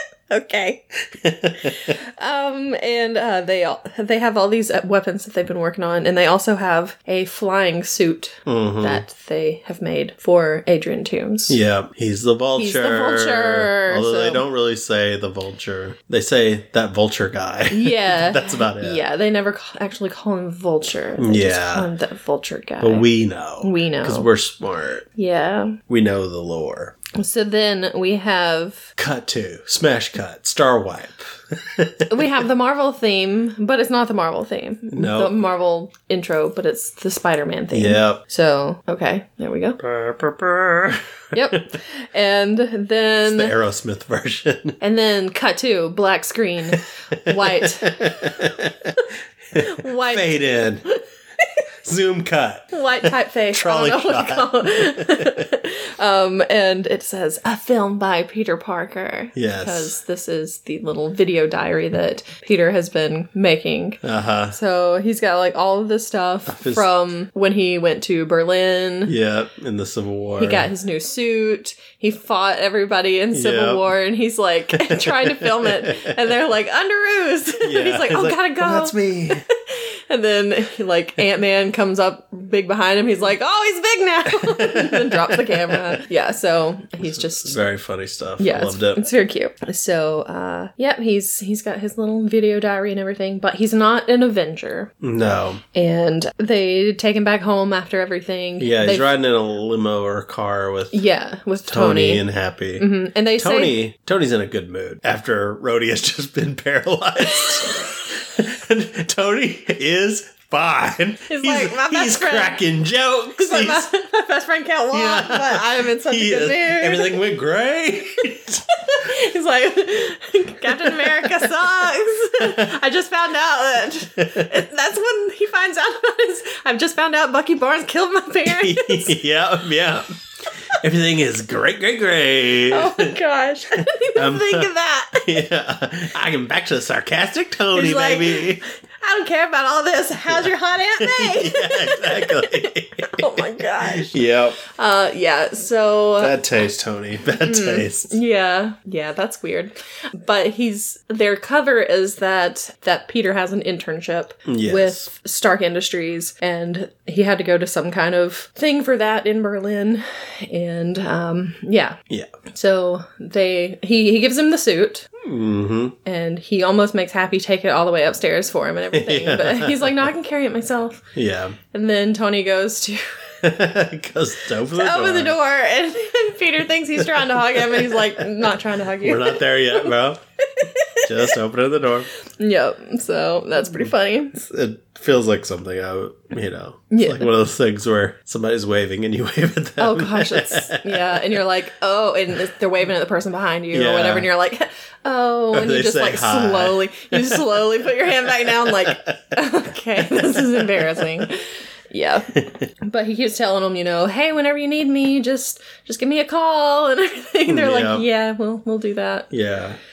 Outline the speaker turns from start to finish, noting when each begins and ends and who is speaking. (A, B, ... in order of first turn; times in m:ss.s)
0:00.3-0:00.8 A
0:01.1-0:02.0 B
0:01.8-0:11.6 A
0:08.5-0:09.0 B
0:11.5-0:19.0 B
0:12.6-0:14.4 A
0:17.7-0:23.1 A
0:21.2-0:21.9 B
0:22.8-0:25.0 B
0:23.6-0:24.3 A
0:25.1-0:25.8 A
0:25.9-0:27.0 B
0:27.1-0:28.9 A
0:29.0-0:32.3 B
0:32.1-0:39.8 A
0:34.9-0:35.4 B
0:37.7-0:38.2 B
0:39.8-0:41.6 B
0:41.3-0:43.5 A
0:43.2-0:44.8 B
0:44.8-0:48.1 A
0:46.7-0:50.9 B
0:49.5-0:50.3 A
0:51.8-0:55.5 B
0:52.7-1:09.1 A
0:59.4-1:00.0 B
1:04.0-1:04.6 B
1:06.5-1:06.9 B
1:09.0-1:10.7 B
1:10.4-1:27.6 A
1:13.3-1:13.9 B
1:14.7-1:16.1 B
1:17.6-1:19.4 B
1:24.3-1:26.0 B
1:27.1-1:29.0 B
1:28.4-1:34.9 A
1:35.0-1:35.6 B
1:35.7-1:39.1 A
1:38.6-1:41.0 B
1:40.9-1:42.2 A
1:41.7-1:53.9 B
1:42.8-1:43.8 A
1:51.3-1:52.6 A
1:53.4-1:57.2 A
1:54.9-1:58.6 B
1:58.7-2:09.2 A
2:00.7-2:01.5 B
2:02.4-2:02.7 B
2:04.2-2:04.5 B
2:08.4-2:10.1 B
2:10.7-2:13.1 B
2:12.7-2:15.4 A
2:14.1-2:18.6 B
2:17.7-2:26.4 A
2:20.3-2:24.6 B
2:26.2-2:28.2 B
2:27.4-2:42.0 A
2:34.5-2:35.1 B
2:42.5-2:45.1 A
2:45.2-2:46.0 B
2:46.0-2:51.1 A
2:48.9-2:50.0 B
2:51.1-2:51.6 B
2:51.7-2:53.0 A
2:53.4-2:55.4 B
2:54.7-2:59.9 A
2:57.0-3:00.2 B
3:00.5-3:01.4 A
3:01.0-3:02.1 B
3:02.4-3:04.4 A
3:03.7-3:11.2 B
3:06.9-3:07.3 A
3:09.8-3:29.3 A
3:13.7-3:14.3 B
3:15.5-3:17.7 B
3:18.2-3:19.2 B
3:20.0-3:21.2 B
3:27.5-3:28.0 B
3:29.3-3:29.8 B